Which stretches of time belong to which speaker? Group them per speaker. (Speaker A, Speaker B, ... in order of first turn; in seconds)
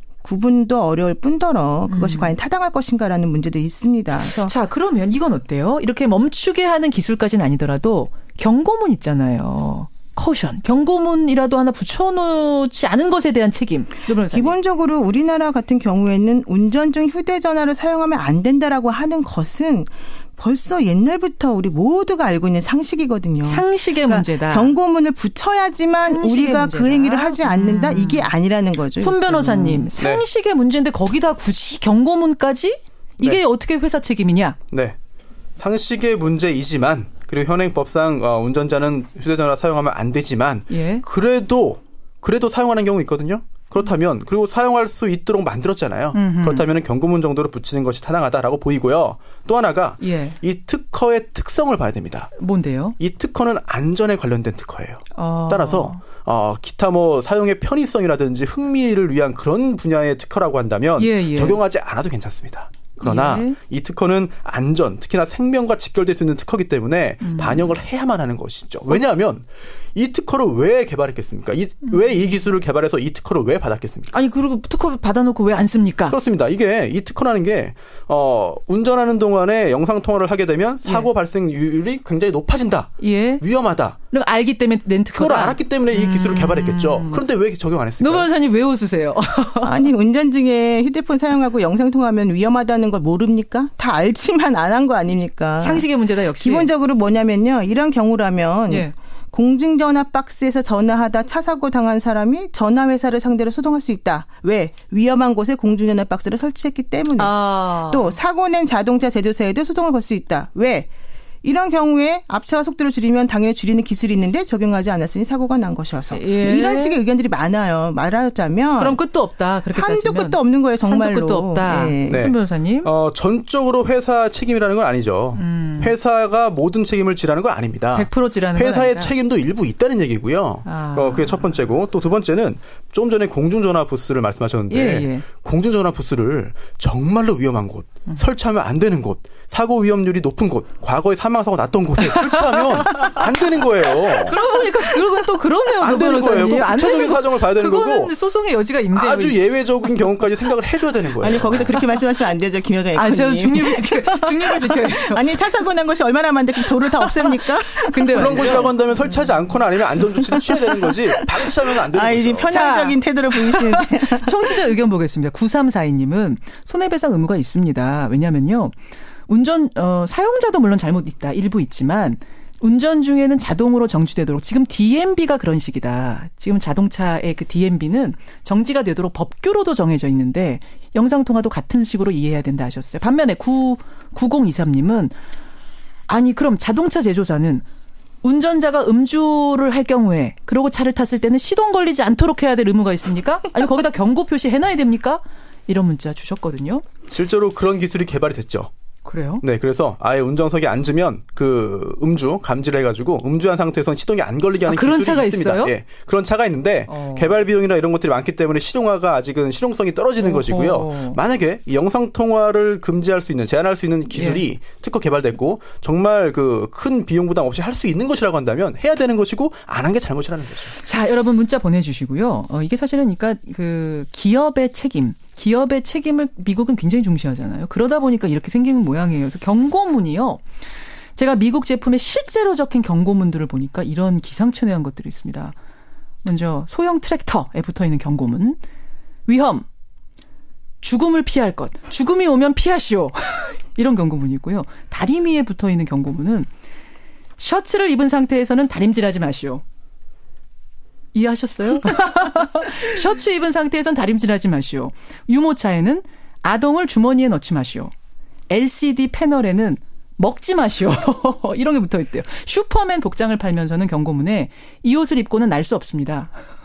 Speaker A: 0.2-4.5, 14.1-29.9, 89.6-110.9, 111.4-119.0, 119.7-122.2, 151.2-158.8, 160.0-164.5
Speaker B: 1.9-2.3, 4.3-14.6, 23.5-24.8, 25.9-28.3, 29.0-34.6, 40.7-41.0, 46.1-46.7, 50.0-50.4, 52.4-53.0, 55.1-56.0, 61.0-61.6, 63.0-63.6, 67.2-67.8, 74.1-76.2, 80.8-81.1, 83.0-83.4, 84.1-87.2, 88.0-89.8, 95.6-96.7, 98.7-98.9, 107.2-108.2, 116.1-117.0, 118.8-122.9, 125.4-126.0, 128.0-129.1, 130.7-131.5, 134.7-135.3, 142.1-143.2, 144.2-149.4, 152.9-155.2, 157.0-159.3, 162.5-168.8, 169.3-185.2, 186.1-187.7, 188.2-196.8, 199.1-199.4, 204.7-205.8, 206.9-207.4, 210.2-211.2, 214.1-214.4, 220.7-230.4, 231.2-235.6, 236.2-238.6, 239.3-239.7, 240.8-246.5, 247.4-249.6, 251.1-257.9, 258.5-266.4
Speaker C: 30.0-30.2, 34.7-35.0, 35.6-52.3, 53.0-74.2, 76.1-84.0, 85.1-88.3, 122.1-144.4, 145.8-148.1, 148.9-151.6, 158.1-162.6, 197.1-198.7, 199.4-220.7